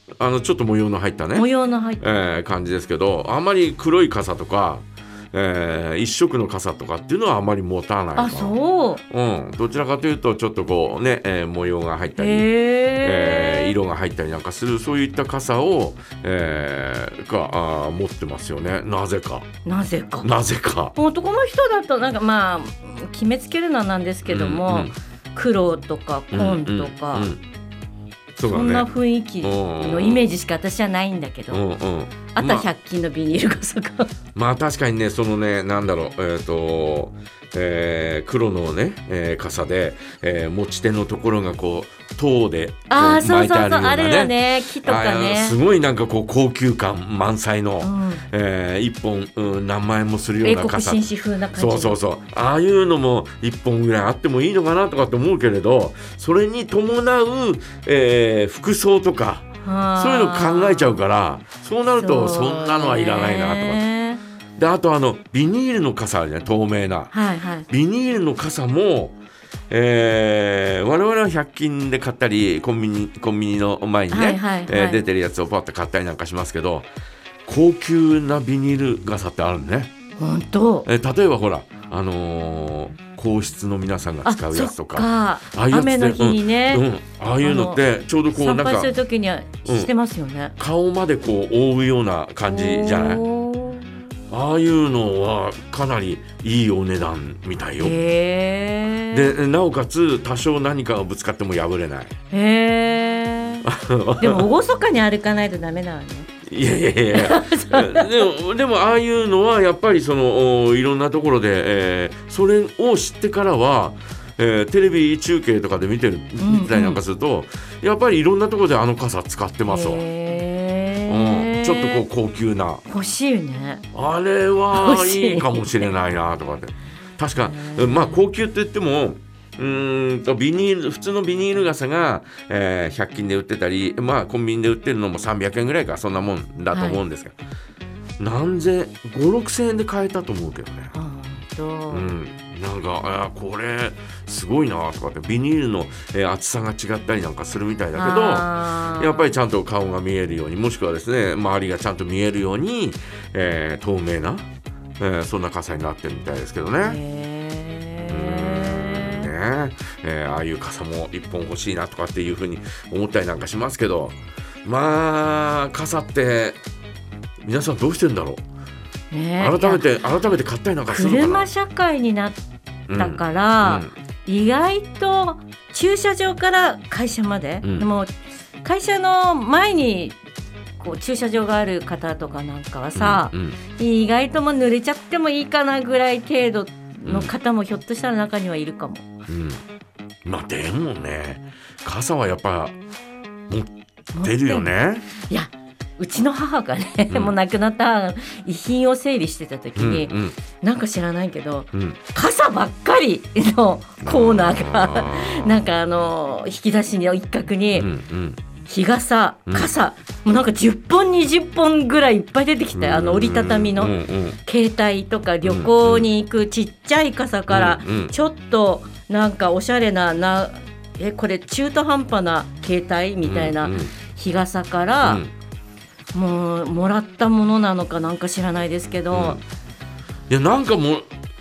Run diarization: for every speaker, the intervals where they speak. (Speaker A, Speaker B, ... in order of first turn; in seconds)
Speaker A: 0.2-1.5, 2.0-8.6, 9.1-12.5, 13.0-19.5, 20.2-20.9, 24.3-24.9, 26.3-27.4, 28.4-28.9, 29.4-30.3, 31.5-32.7, 34.4-63.8, 64.6-67.1, 67.7-69.2, 69.7-76.9, 77.5-79.9, 80.8-88.9, 89.7-89.9, 90.6-93.2, 94.3-98.0, 99.1-102.2, 103.6-104.5, 106.5-120.0, 121.1-122.8, 123.9-137.4, 138.2-140.9, 141.9-157.0, 158.1-166.6, 167.4-168.4, 169.4-171.5, 172.9-173.9, 177.6-177.9, 182.9-183.6, 187.1-187.3, 189.3-189.6, 190.2-192.7, 193.5-195.1, 197.1-197.4, 199.8-200.4, 201.7-202.0, 204.0-205.7, 207.7-208.4, 212.8-214.4, 215.4-216.1, 217.5-218.1, 223.2-223.9, 225.0-225.3, 229.1-229.4, 230.3-231.1
Speaker B: 1.4-2.1, 8.2-9.0, 12.2-13.8, 19.6-20.3, 20.9-27.3, 28.5-31.6, 32.3-34.1, 42.9-45.6, 47.8-48.2, 50.4-52.0, 59.6-61.0, 62.0-64.2, 67.1-67.7, 74.1-75.0, 80.2-80.9, 84.2-86.8, 87.4-90.5, 92.5-93.8, 97.8-99.4, 102.3-103.7, 104.2-106.3, 107.1-108.3, 116.4-117.0, 119.7-122.0, 122.9-123.8, 124.7-125.9, 127.3-128.2, 136.7-137.0, 140.9-142.1, 147.9-149.3, 156.8-159.3, 169.1-169.9, 170.9-172.4, 173.0-180.2, 180.8-189.1, 194.1-207.9, 208.7-225.2, 226.1-229.4